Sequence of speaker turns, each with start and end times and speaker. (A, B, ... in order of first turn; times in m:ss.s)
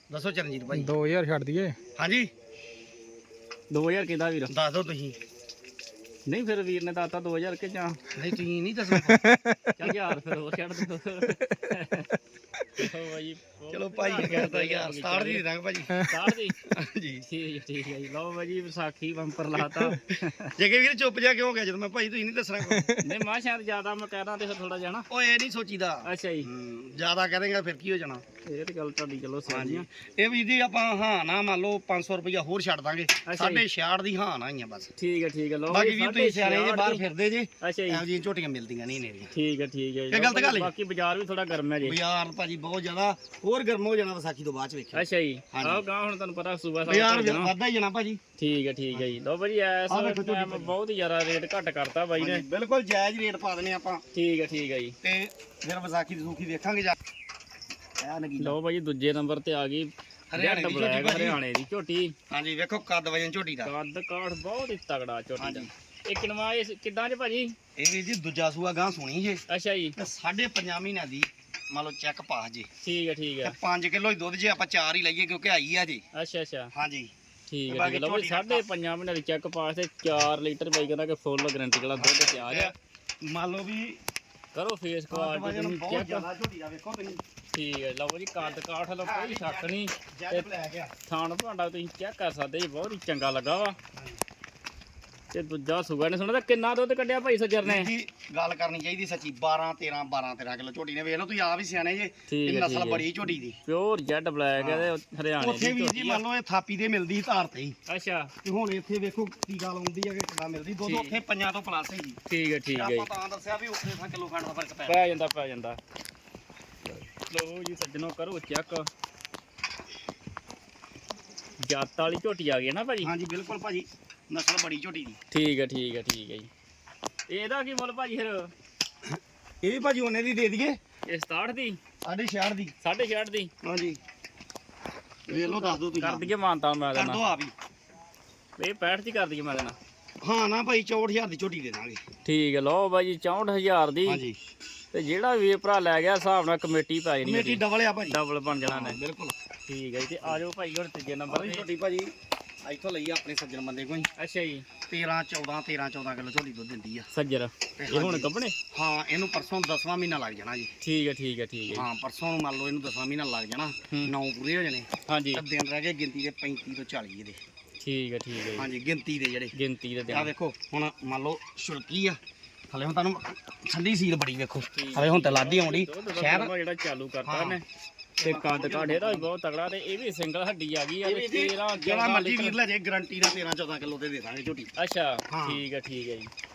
0:00.1-0:00.9 A
0:00.7-0:01.8 B
0:02.0-0:02.3 A
0:03.7-0:04.5 C
0:04.5-0:05.2 A
0:06.2-0:08.0 C
0:08.1-0:09.3 A
0:09.0-0:10.1 B
0:09.8-0:12.1 C
0:12.8-0:15.4 C
0:13.7-0:16.0 A
0:16.0-0:16.6 C
0:16.6-0:17.3 A
0:17.3-0:20.5 C
0:19.6-0:23.0 A
0:22.7-0:23.0 B
0:23.0-0:25.1 C
0:25.1-0:28.2 A
0:26.0-0:26.5 C
0:28.4-0:29.8 C
0:29.5-0:34.9 A
0:33.2-0:33.6 C
0:35.0-0:37.0 C
0:35.7-0:39.3 A
0:37.6-0:38.0 C
0:39.3-0:42.0 C
0:40.1-0:40.7 A
0:41.8-0:45.8 A
0:44.9-0:47.5 C
0:46.8-0:48.2 A
0:48.4-0:52.4 C
0:49.9-0:50.7 A
0:52.2-0:54.0 A
0:54.1-0:55.0 C
0:55.0-0:57.0 A
0:58.0-0:58.6 A
0:58.4-1:02.1 C
1:00.3-1:01.4 A
1:02.3-1:03.7 A
1:03.6-1:07.5 C
1:05.4-1:05.7 A
1:07.8-1:09.4 A
1:09.5-1:10.0 C
1:10.0-1:12.7 A
1:12.8-1:13.5 C
1:13.4-1:16.0 A
1:16.1-1:16.7 C
1:16.7-1:17.1 A
1:17.5-1:22.7 C
1:17.7-1:18.6 A
1:22.0-1:24.0 A
1:24.5-1:26.2 C
1:25.1-1:27.2 A
1:27.5-1:30.5 C
1:28.4-1:30.9 A
1:31.0-1:33.8 C
1:35.3-1:37.9 C
1:37.6-1:43.6 A
1:42.3-1:43.0 C
1:43.6-1:46.2 C
1:44.6-1:47.8 A
1:47.9-1:48.3 C
1:48.4-1:52.2 A
1:50.8-1:51.1 C
1:52.3-1:53.1 C
1:52.7-1:55.1 A
1:54.9-1:55.8 C
1:56.9-1:58.9 C
2:01.6-2:03.1 C
2:03.0-2:05.2 A
2:05.3-2:06.5 C
2:07.3-2:08.5 C
2:09.0-2:10.8 A
2:11.1-2:11.8 C
2:12.0-2:12.7 A
2:12.8-2:13.5 C
2:13.6-2:14.0 A
2:15.3-2:16.3 A
2:15.3-2:17.2 C
2:16.9-2:17.5 A
2:18.6-2:19.8 C
2:20.2-2:22.0 A
2:22.2-2:24.2 C
2:24.0-2:24.4 A
2:24.9-2:29.0 C
2:27.2-2:29.3 A
2:29.7-2:31.6 C
2:31.3-2:32.1 A
2:32.6-2:34.1 A
2:34.2-2:34.6 C
2:34.9-2:37.1 A
2:37.1-2:38.6 C
2:37.8-2:40.7 A
2:40.8-2:41.8 C
2:41.7-2:47.4 A
2:45.0-2:45.4 C
2:47.8-2:48.7 C
2:48.6-2:49.5 A
2:49.5-2:50.3 C
2:50.1-2:52.2 A
2:52.7-2:56.5 A
2:54.7-2:57.6 C
2:57.2-2:57.6 A
2:58.2-2:59.3 A
2:58.2-3:02.6 C
3:01.0-3:04.7 A
3:04.8-3:06.3 C
3:05.3-3:05.6 A